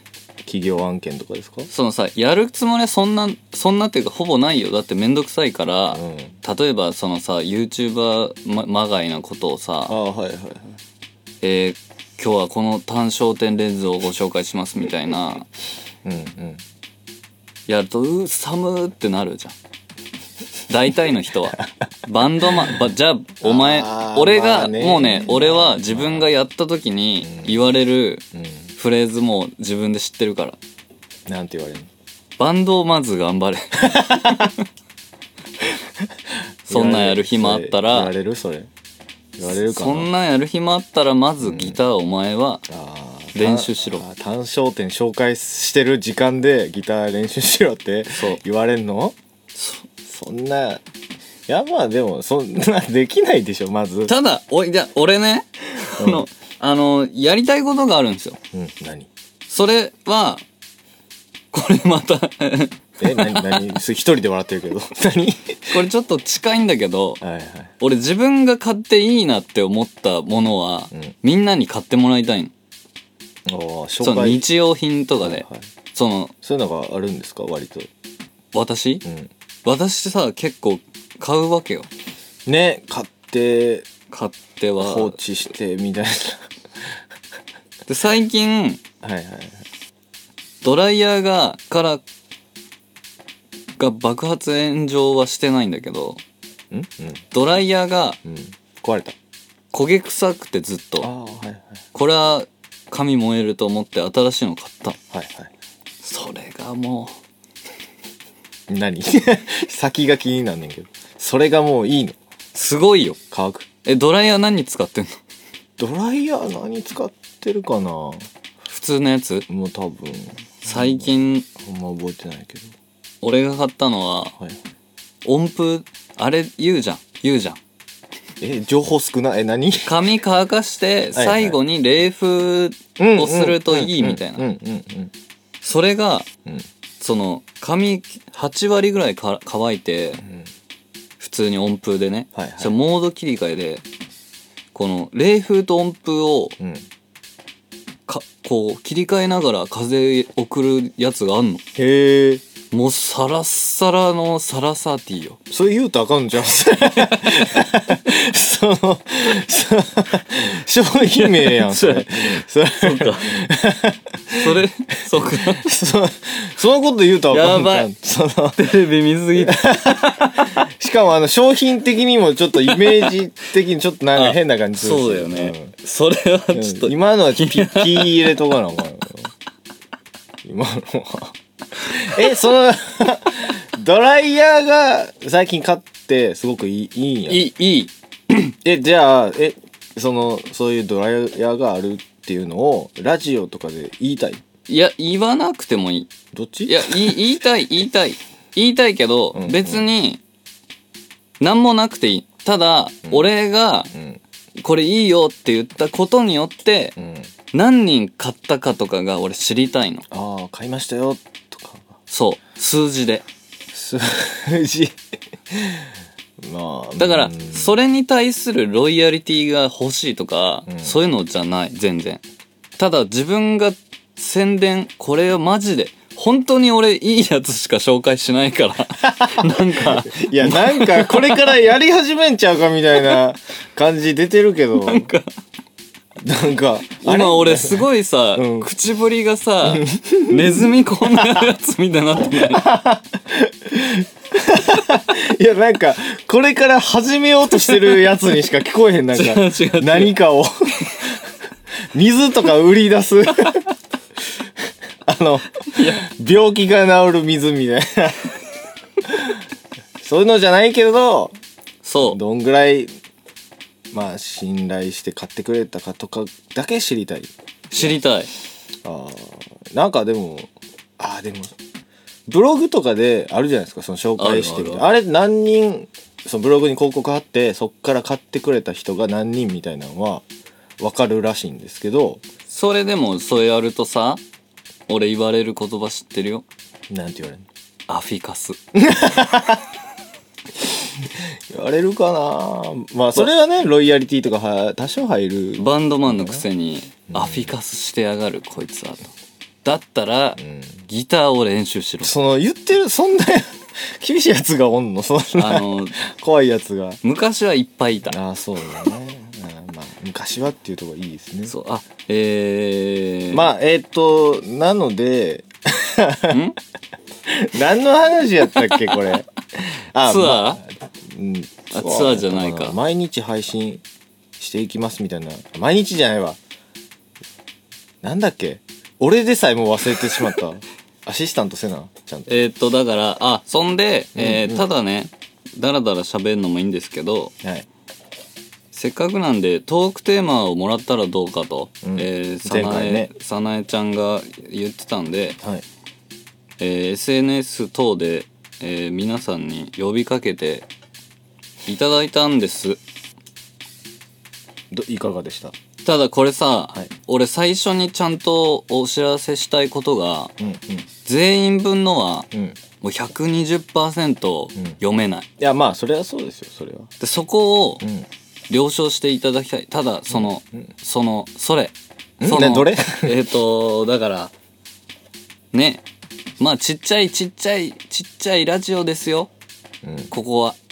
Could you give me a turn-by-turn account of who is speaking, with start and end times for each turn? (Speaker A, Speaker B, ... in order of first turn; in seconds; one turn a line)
Speaker A: 0.4-1.7
Speaker B: 1.7-9.9
Speaker A: 5.9-6.4
Speaker A: 9.9-10.8
Speaker B: 11.4-15.5
Speaker A: 16.0-16.6
Speaker B: 17.7-19.6
Speaker B: 20.7-28.2
Speaker A: 22.4-22.8
Speaker A: 23.4-26.3
Speaker A: 27.2-27.6
Speaker A: 28.3-28.7
Speaker B: 28.8-30.6
Speaker A: 31.3-31.9
Speaker B: 32.4-34.6
Speaker A: 33.8-34.5
Speaker A: 35.6-38.7
Speaker B: 36.7-38.1
Speaker A: 39.4-40.1
Speaker B: 39.4-42.6
Speaker A: 41.4-41.8
Speaker A: 42.7-49.2
Speaker B: 43.3-44.0
Speaker B: 48.1-48.4
Speaker B: 49.5-49.9
Speaker A: 50.0-50.8
Speaker A: 51.5-54.1
Speaker B: 54.1-58.4
Speaker A: 55.8-56.2
Speaker A: 58.5-59.1
Speaker B: 59.5-60.4
Speaker B: 61.5-63.7
Speaker A: 63.0-65.8
Speaker B: 65.7-67.2
Speaker A: 67.2-67.7
Speaker B: 67.8-72.5
Speaker A: 73.5-74.5
Speaker B: 74.0-76.3
Speaker A: 75.2-75.6
Speaker A: 76.4-77.9
Speaker B: 78.5-79.0
Speaker A: 79.0-79.3
Speaker B: 79.6-81.9
Speaker A: 82.5-83.9
Speaker B: 84.1-85.2
Speaker A: 84.8-87.0
Speaker B: 87.9-88.8
Speaker A: 89.0-89.6
Speaker B: 90.6-92.0
Speaker B: 93.8-96.2
Speaker A: 96.7-97.2
Speaker B: 97.3-98.2
Speaker A: 98.2-99.2
Speaker B: 99.7-101.1
Speaker A: 101.0-101.8
Speaker B: 101.9-105.0
Speaker A: 105.1-105.5
Speaker B: 106.0-107.2
Speaker A: 108.7-112.2
Speaker B: 112.5-113.2
Speaker A: 113.3-113.7
Speaker B: 113.8-115.2
Speaker A: 115.8-118.3
Speaker B: 118.7-119.5
Speaker A: 119.5-122.7
Speaker B: 120.6-121.5
Speaker B: 123.2-124.3
Speaker B: 125.2-127.6
Speaker A: 128.4-129.9
Speaker B: 129.8-134.4
Speaker A: 131.1-131.6
Speaker A: 133.0-135.1
Speaker B: 135.6-136.3
Speaker B: 137.0-140.2
Speaker A: 140.2-140.5
Speaker B: 141.2-143.8
Speaker A: 142.3-142.7
Speaker B: 144.7-146.6
Speaker A: 146.6-146.8
Speaker B: 148.1-151.6
Speaker A: 151.8-152.4
Speaker B: 152.7-155.4
Speaker A: 155.5-164.6
Speaker B: 156.9-157.4
Speaker B: 161.1-163.4
Speaker B: 164.4-165.7
Speaker A: 165.2-168.6
Speaker B: 167.3-167.9
Speaker B: 168.6-170.6
Speaker A: 169.3-175.7
Speaker B: 172.6-173.1
Speaker B: 174.1-178.3
Speaker A: 176.5-179.3
Speaker A: 180.4-187.4
Speaker B: 187.3-188.5
Speaker A: 188.6-194.4
Speaker B: 194.7-196.1
Speaker A: 196.3-197.2
Speaker B: 196.7-200.2
Speaker A: 199.3-199.8
Speaker B: 201.4-203.9
Speaker A: 203.0-203.3
Speaker A: 203.9-204.2
Speaker B: 204.6-206.9
Speaker A: 207.0-207.3
Speaker B: 207.5-210.0
Speaker A: 210.1-211.9
Speaker B: 212.1-213.2
Speaker A: 213.7-215.0
Speaker A: 215.5-217.8
Speaker B: 217.0-222.2
Speaker A: 220.7-221.0
Speaker B: 222.8-231.6
Speaker A: 229.0-235.1
Speaker B: 234.8-235.3
Speaker A: 236.2-238.7
Speaker B: 237.0-242.7
Speaker A: 239.6-241.5
Speaker A: 242.3-251.3
Speaker B: 247.6-248.0
Speaker B: 249.1-250.1
Speaker A: 251.9-253.6
Speaker A: 255.0-258.3
Speaker B: 255.7-256.0
Speaker A: 259.0-259.4
Speaker A: 260.0-261.4
Speaker B: 261.8-262.2
Speaker A: 262.0-262.9
Speaker A: 263.9-268.0
Speaker B: 267.7-268.3
Speaker A: 268.8-271.5
Speaker A: 272.3-280.2
Speaker B: 274.2-274.8
Speaker A: 280.8-282.2
Speaker B: 282.5-284.2
Speaker B: 284.9-286.4
Speaker A: 286.9-287.4
Speaker B: 287.9-288.6
Speaker A: 288.7-289.6
Speaker A: 290.5-296.4
Speaker B: 295.6-299.1
Speaker A: 297.1-297.5
Speaker B: 299.6-302.1
Speaker A: 300.4-300.8
Speaker A: 302.0-307.0
Speaker B: 305.4-306.0
Speaker B: 307.0-308.2
Speaker A: 308.1-311.5
Speaker B: 311.4-313.5
Speaker A: 313.3-316.4
Speaker B: 316.3-316.6
Speaker A: 317.2-323.8
Speaker B: 318.5-319.1
Speaker B: 320.0-320.6
Speaker B: 321.7-322.8
Speaker A: 324.4-326.4
Speaker A: 328.0-332.4
Speaker B: 332.3-337.3
Speaker A: 334.1-334.6
Speaker B: 338.7-345.4
Speaker A: 341.8-343.1
Speaker B: 346.6-350.7
Speaker B: 351.7-352.8
Speaker A: 354.7-355.6
Speaker B: 355.8-360.3
Speaker A: 360.4-360.9
Speaker B: 361.0-362.3
Speaker A: 362.3-362.6
Speaker B: 362.8-365.3
Speaker A: 365.4-366.9
Speaker B: 367.0-367.8
Speaker A: 367.8-368.1
Speaker B: 368.5-374.3
Speaker A: 370.1-370.7
Speaker A: 372.2-373.2
Speaker B: 375.5-375.8
Speaker B: 376.4-379.3
Speaker A: 379.8-380.1
Speaker B: 380.1-380.6